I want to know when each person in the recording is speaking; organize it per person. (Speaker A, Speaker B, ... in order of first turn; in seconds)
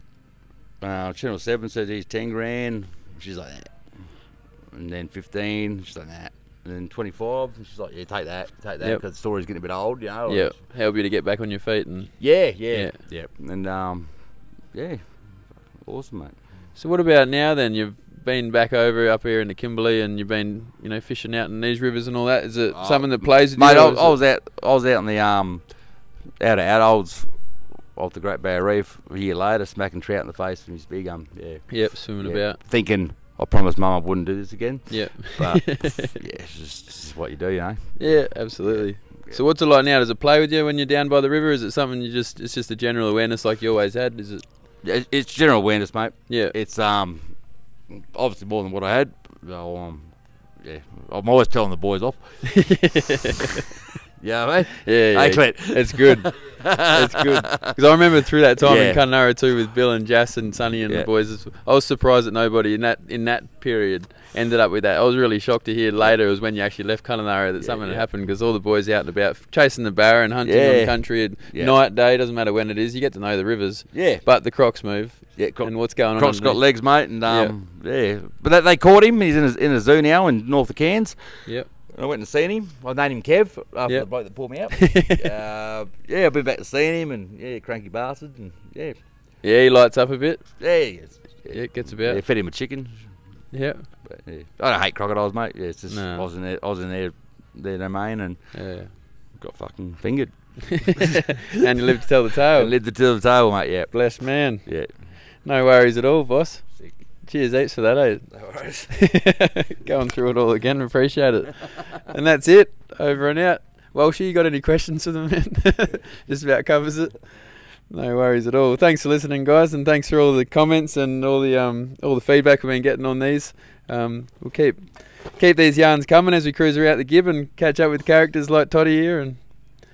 Speaker A: 0.8-3.8, 4.7-10.6, 12.2-14.1, 14.7-15.0, 15.8-16.4, 22.7-25.6, 26.4-27.3, 28.0-38.0, 38.6-39.4, 44.8-47.3, 47.9-50.1, 50.6-52.2, 54.2-57.8, 58.6-59.0, 67.6-68.1, 70.4-71.8, 73.9-74.2, 75.4-89.0, 90.6-93.0, 94.0-98.4, 99.4-101.7, 102.5-104.0, 104.6-104.9, 108.3-108.9
Speaker B: 10.3-12.1, 12.7-13.0, 16.8-24.2, 31.7-32.6, 34.9-36.1, 38.0-44.4, 46.3-46.5, 52.4-53.7, 54.7-76.6, 77.3-77.5, 84.7-85.3, 89.4-90.4, 91.5-92.2, 93.5-93.9, 95.9-96.3, 98.5-98.9, 100.8-102.7, 103.9-104.7, 105.4-106.6, 107.2-108.3, 108.9-117.2, 117.9-129.4